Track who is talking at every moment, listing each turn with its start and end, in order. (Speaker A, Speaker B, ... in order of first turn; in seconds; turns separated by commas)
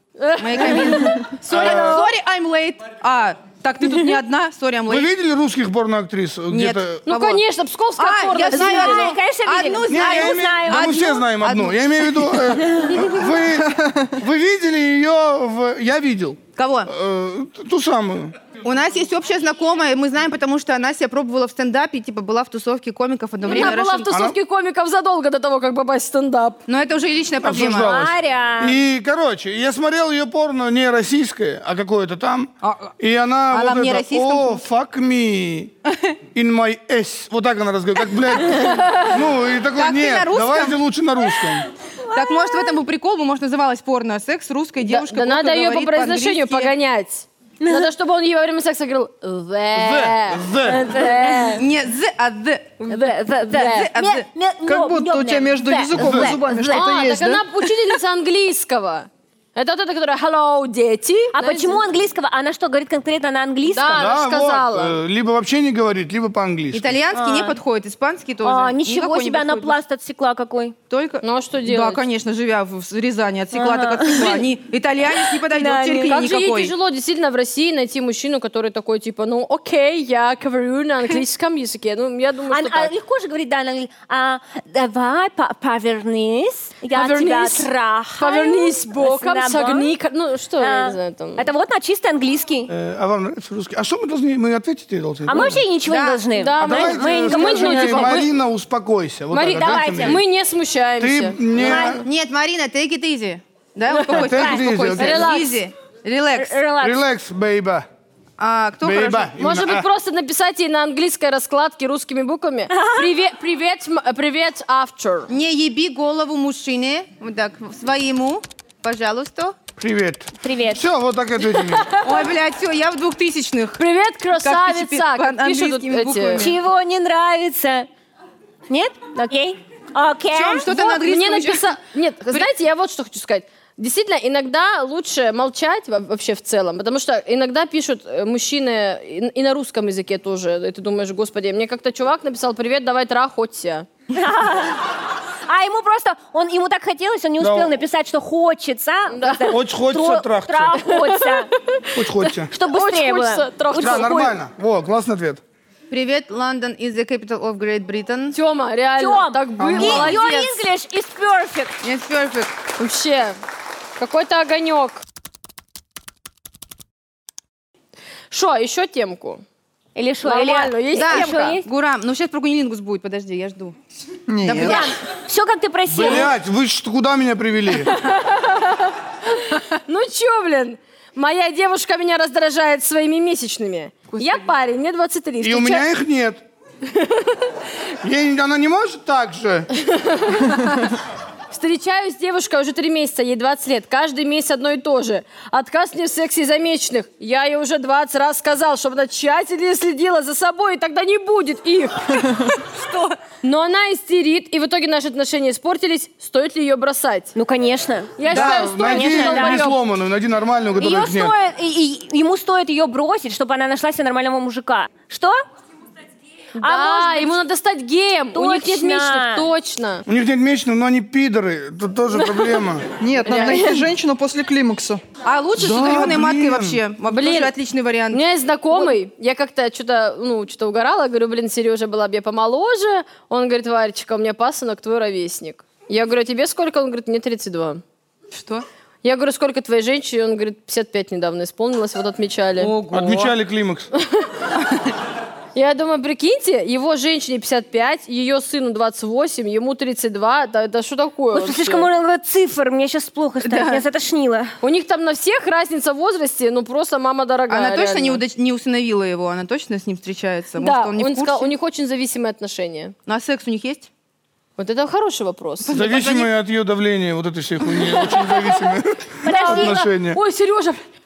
Speaker A: 0.2-2.1, Speaker B: 0.4-5.1, Speaker C: 1.5-2.0, Speaker C: 4.9-7.1, Speaker B: 6.5-7.4, Speaker A: 7.0-9.1, Speaker B: 8.0-12.2, Speaker D: 8.5-11.0, Speaker C: 9.9-18.3, Speaker D: 12.7-13.1, Speaker E: 13.6-14.1, Speaker B: 16.6-16.9, Speaker B: 18.6-24.1, Speaker A: 23.4-26.6, Speaker D: 23.5-23.7, Speaker C: 24.1-24.4, Speaker B: 26.7-27.9, Speaker C: 27.4-35.7, Speaker D: 27.8-28.8, Speaker B: 32.6-33.0, Speaker B: 33.5-34.6, Speaker C: 36.3-41.7, Speaker A: 38.6-39.1, Speaker B: 39.8-40.8, Speaker D: 42.0-42.8, Speaker B: 42.1-46.7, Speaker A: 44.8-51.6, Speaker D: 47.6-47.9, Speaker C: 49.7-50.9, Speaker D: 50.7-51.6, Speaker B: 51.5-52.8, Speaker A: 52.8-53.9, Speaker D: 52.9-56.8, Speaker B: 53.5-54.3, Speaker E: 54.6-57.5, Speaker C: 56.0-56.3, Speaker A: 56.5-61.8, Speaker D: 61.3-64.0, Speaker A: 63.7-65.0, Speaker C: 63.9-67.0, Speaker B: 66.7-69.8, Speaker D: 67.1-67.6, Speaker D: 68.4-70.7, Speaker B: 70.9-76.7, Speaker A: 71.2-72.0, Speaker D: 73.5-74.5, Speaker D: 75.1-76.2, Speaker A: 76.0-82.9, Speaker D: 82.5-89.9, Speaker A: 86.9-91.5, Speaker D: 90.6-92.7, Speaker C: 92.7-95.6, Speaker D: 95.2-98.3, Speaker B: 95.8-96.2, Speaker A: 96.3-98.3, Speaker C: 96.6-100.2, Speaker A: 99.3-101.8, Speaker D: 99.5-100.2, Speaker C: 101.0-102.0, Speaker D: 101.5-102.0, Speaker B: 101.7-106.6, Speaker A: 103.9-104.2, Speaker C: 104.1-105.3, Speaker D: 104.2-104.6, Speaker A: 104.9-105.6, Speaker D: 106.3-107.0, Speaker C: 106.8-107.8, Speaker B: 108.4-109.3, Speaker C: 108.8-109.9, Speaker A: 109.4-115.3, Speaker D: 112.7-113.1, Speaker B: 115.3-119.6, Speaker C: 119.8-121.9, Speaker D: 120.4-120.8, Speaker B: 122.0-123.8, Speaker A: 123.8-126.5, Speaker B: 124.4-126.5, Speaker D: 126.4-127.9, Speaker D: 128.7-130.7, Speaker B: 130.3-131.7, Speaker A: 130.7-143.9, Speaker D: 144.1-144.8, Speaker D: 145.5-151.5, Speaker C: 147.4-147.7, Speaker A: 149.1-149.6, Speaker C: 149.5-150.8, Speaker A: 150.8-154.3, Speaker C: 151.9-152.5, Speaker D: 152.5-154.3, Speaker C: 153.7-155.4, Speaker B: 155.9-158.3, Speaker A: 158.3-160.6, Speaker D: 159.0-161.8, Speaker C: 159.6-160.1, Speaker B: 161.8-162.5, Speaker A: 162.8-163.4, Speaker A: 164.0-165.0, Speaker A: 168.3-169.4, Speaker D: 169.9-171.7, Speaker A: 170.2-171.5, Speaker B: 171.0-173.8, Speaker E: 174.3-174.9, Speaker B: 174.4-174.9, Speaker D: 174.6-176.3, Speaker C: 175.9-177.9, Speaker A: 177.8-185.8, Speaker B: 184.1-184.4, Speaker C: 185.4-186.4, Speaker A: 186.9-187.5, Speaker C: 188.0-189.7, Speaker A: 189.8-190.9, Speaker A: 191.5-202.3, Speaker B: 202.6-203.2, Speaker A: 203.4-207.3, Speaker D: 207.3-209.7, Speaker A: 208.2-209.8, Speaker C: 208.3-211.3, Speaker D: 210.8-215.4, Speaker A: 216.6-220.0, Speaker D: 216.6-217.4, Speaker D: 218.3-219.5, Speaker C: 220.1-222.9, Speaker A: 222.1-222.6, Speaker E: 223.0-225.0, Speaker A: 223.2-223.8, Speaker B: 225.2-228.2, Speaker C: 225.6-226.8, Speaker A: 227.1-227.5, Speaker A: 228.1-237.8, Speaker B: 238.3-238.7, Speaker A: 239.0-242.7, Speaker B: 242.6-243.3, Speaker C: 242.9-243.9, Speaker A: 244.0-244.3, Speaker A: 245.5-251.9, Speaker D: 251.3-254.5, Speaker B: 253.4-253.8, Speaker A: 254.6-258.2, Speaker B: 257.5-261.5, Speaker A: 260.6-262.9, Speaker B: 263.1-263.9, Speaker A: 264.6-265.8, Speaker B: 265.6-266.3, Speaker C: 265.7-270.2, Speaker A: 267.8-268.7, Speaker D: 269.2-269.8, Speaker A: 269.3-270.8